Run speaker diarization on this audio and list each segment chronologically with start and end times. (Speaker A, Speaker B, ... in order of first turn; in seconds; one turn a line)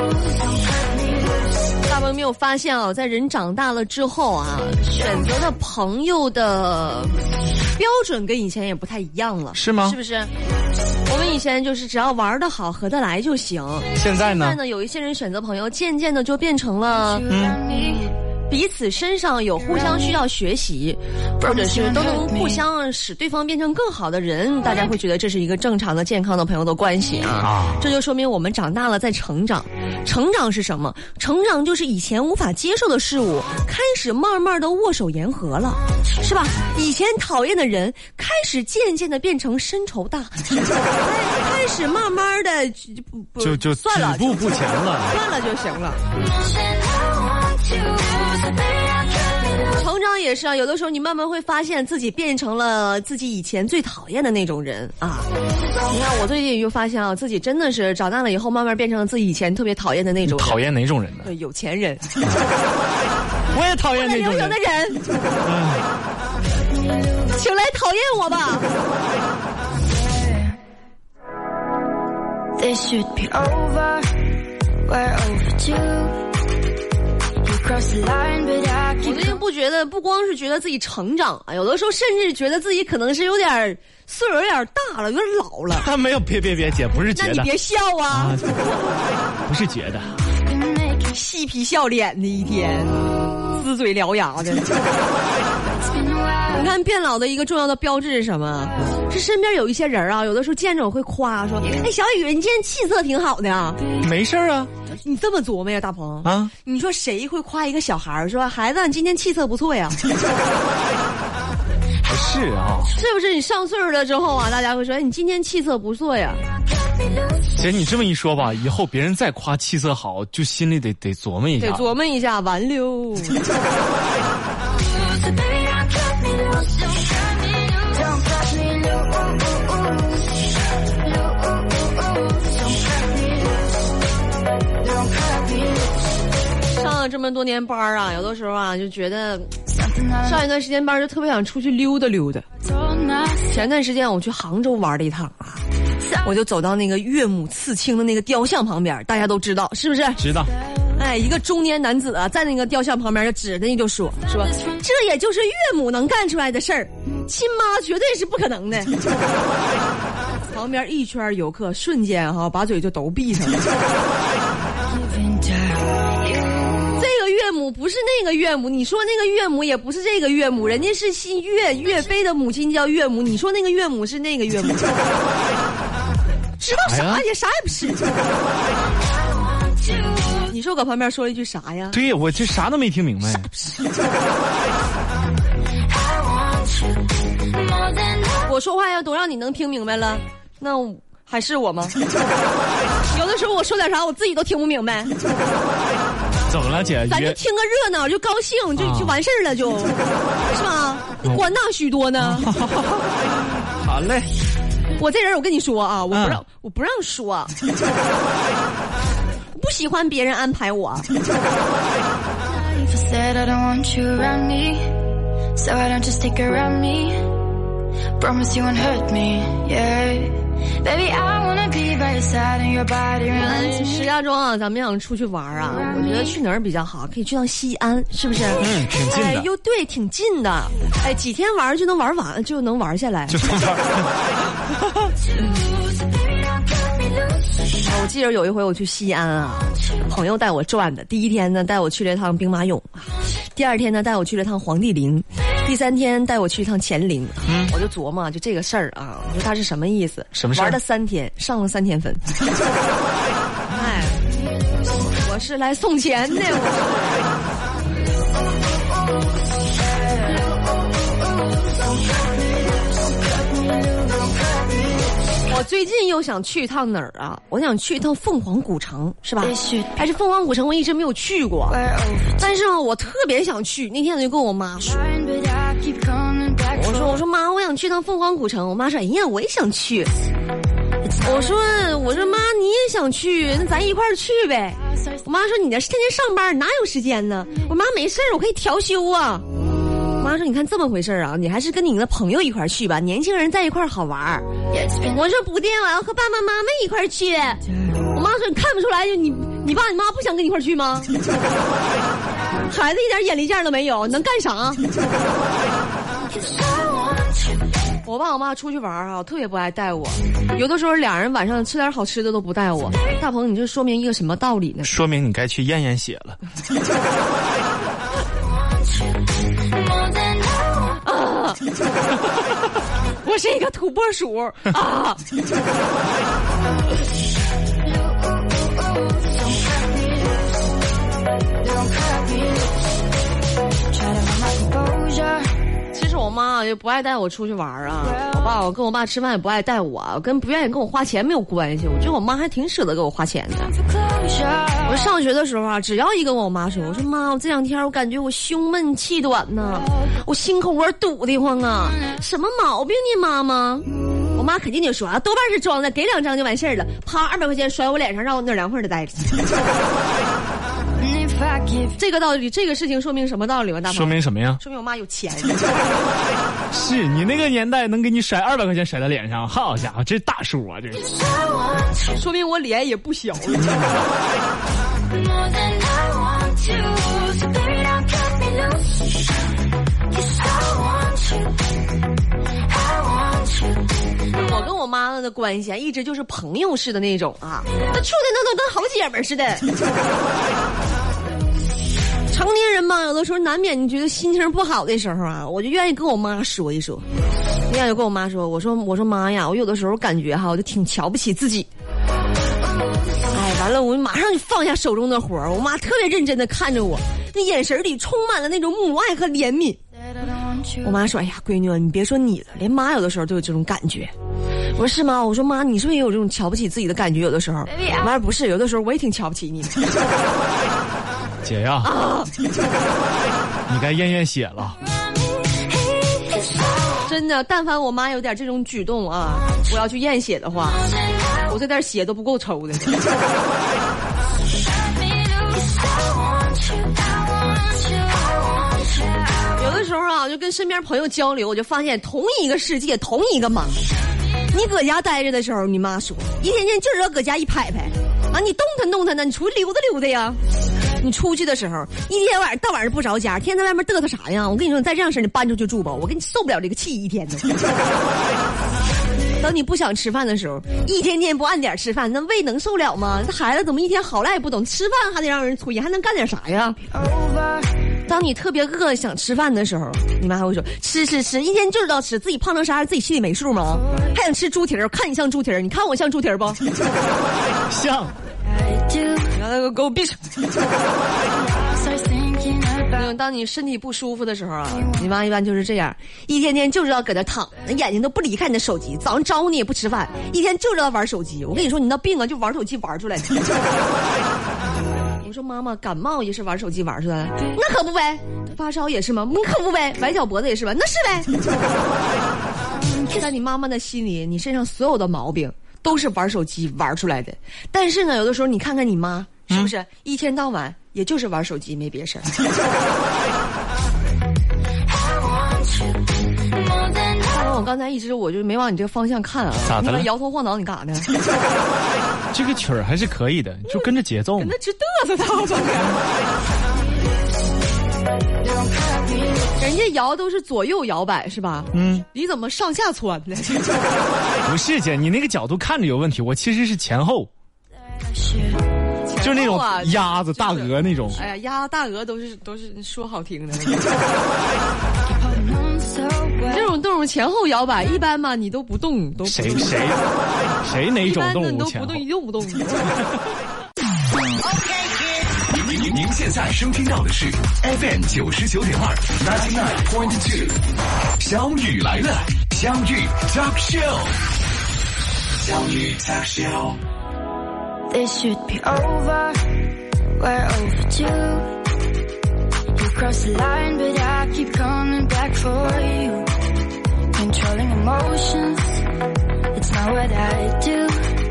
Speaker A: 1.9-7.2
Speaker A: 7.8-10.3
Speaker B: 9.5-10.0
Speaker A: 11.1-17.2
Speaker B: 14.0-14.6
Speaker C: 17.1-18.1
Speaker B: 17.3-17.6
Speaker A: 18.5-44.5
Speaker C: 21.4-22.6
Speaker B: 27.4-27.9
Speaker B: 43.4-45.2
Speaker A: 45.1-46.0
Speaker A: 49.7-55.3
Speaker A: 55.9-60.6
Speaker B: 60.2-61.3
Speaker A: 61.2-62.0
Speaker B: 62.2-62.5
Speaker B: 63.5-64.6
Speaker A: 63.9-65.0
Speaker B: 65.4-65.8
Speaker A: 67.3-68.7
Speaker C: 69.9-70.5
Speaker C: 72.6-74.1
Speaker C: 74.8-76.2
Speaker C: 77.4-79.4
Speaker A: 79.0-85.9
Speaker B: 85.7-87.5
Speaker A: 87.1-88.4
Speaker B: 88.1-88.6
Speaker B: 89.5-90.2
Speaker C: 90.5-91.0
Speaker A: 91.1-93.0
Speaker A: 93.5-94.7
Speaker C: 95.7-96.5
Speaker A: 96.5-103.8
Speaker B: 104.0-104.7
Speaker A: 105.0-110.0
Speaker B: 106.2-106.5
Speaker B: 112.1-112.9
Speaker A: 113.0-116.4
Speaker B: 117.5-121.9
Speaker A: 121.6-123.4
Speaker A: 136.7-139.5
Speaker C: 139.7-140.4
Speaker A: 140.2-142.5
Speaker C: 142.7-143.5
Speaker A: 143.5-145.6
Speaker A: 146.2-150.2
Speaker B: 150.2-150.5
Speaker A: 151.0-158.9
Speaker A: 160.5-163.6
Speaker C: 164.8-166.0
Speaker A: 167.0-174.9
Speaker A: 176.6-178.0
Speaker B: 176.9-177.2
Speaker A: 180.5-182.0
Speaker B: 181.9-183.5
Speaker A: 188.4-192.0
Speaker A: 193.1-195.1
Speaker B: 196.5-197.4
Speaker A: 197.1-199.9
Speaker B: 198.8-199.2
Speaker A: 200.5-202.5
Speaker B: 202.2-204.3
Speaker A: 205.0-207.5
Speaker B: 206.1-206.4
Speaker A: 209.6-211.1
Speaker C: 212.5-215.0
Speaker C: 215.6-217.3
Speaker C: 218.2-224.1
Speaker A: 223.3-233.6
Speaker B: 228.6-229.5
Speaker B: 233.3-235.1
Speaker A: 237.8-252.2
Speaker B: 247.5-247.7
Speaker B: 250.3-250.8
Speaker A: 253.7-254.2
Speaker A: 255.2-257.6
Speaker A: 265.5-271.8
Speaker C: 269.4-270.0
Speaker C: 271.7-272.5
Speaker A: 272.4-275.0
Speaker C: 274.9-277.2
Speaker A: 276.7-280.1
Speaker C: 281.1-281.5
Speaker A: 281.2-289.4
Speaker A: 290.2-294.5
Speaker C: 294.7-295.1
Speaker A: 295.1-297.6
Speaker A: 298.1-301.1
Speaker A: 302.6-304.8
Speaker A: 308.1-314.9
Speaker B: 314.8-316.4
Speaker A: 321.0-321.6
Speaker A: 323.2-325.2
Speaker C: 333.9-335.5
Speaker A: 335.9-343.7
Speaker C: 344.0-344.9
Speaker A: 344.9-359.4
Speaker C: 361.0-362.0
Speaker A: 362.0-365.9
Speaker B: 363.9-364.6
Speaker B: 366.7-371.1
Speaker A: 372.1-374.0
Speaker B: 373.6-374.1
Speaker A: 384.4-389.7
Speaker A: 392.3-397.1
Speaker A: 397.7-401.7
Speaker A: 403.3-409.8
Speaker C: 410.1-410.9
Speaker A: 410.8-414.1
Speaker A: 414.8-419.8
Speaker B: 421.4-421.9
Speaker A: 421.8-422.3
Speaker B: 423.7-424.8
Speaker A: 427.0-430.8
Speaker A: 431.5-433.0
Speaker A: 439.6-443.8
Speaker A: 444.5-450.4
Speaker A: 451.0-457.5
Speaker A: 459.4-466.8
Speaker C: 466.9-467.7
Speaker A: 468.1-476.6
Speaker B: 477.7-478.1
Speaker C: 478.5-479.3
Speaker A: 479.3-480.2
Speaker C: 481.3-483.0
Speaker A: 482.9-493.3
Speaker A: 495.2-501.3
Speaker A: 503.0-512.3
Speaker A: 517.2-521.1
Speaker B: 519.6-520.1
Speaker B: 522.3-524.5
Speaker A: 523.7-526.0
Speaker A: 529.6-533.7
Speaker B: 531.7-532.1
Speaker B: 534.5-537.3
Speaker C: 538.0-538.6
Speaker A: 539.1-543.9
Speaker B: 539.2-541.2
Speaker C: 545.1-546.6
Speaker A: 546.5-549.7
Speaker B: 549.2-550.0
Speaker B: 550.6-552.0
Speaker A: 551.0-553.0
Speaker D: 555.4-560.6
Speaker D: 561.2-564.1
Speaker D: 565.4-566.8
Speaker C: 567.9-569.4
Speaker C: 570.2-571.5
Speaker C: 572.8-576.3
Speaker C: 577.1-578.8
Speaker C: 579.5-581.1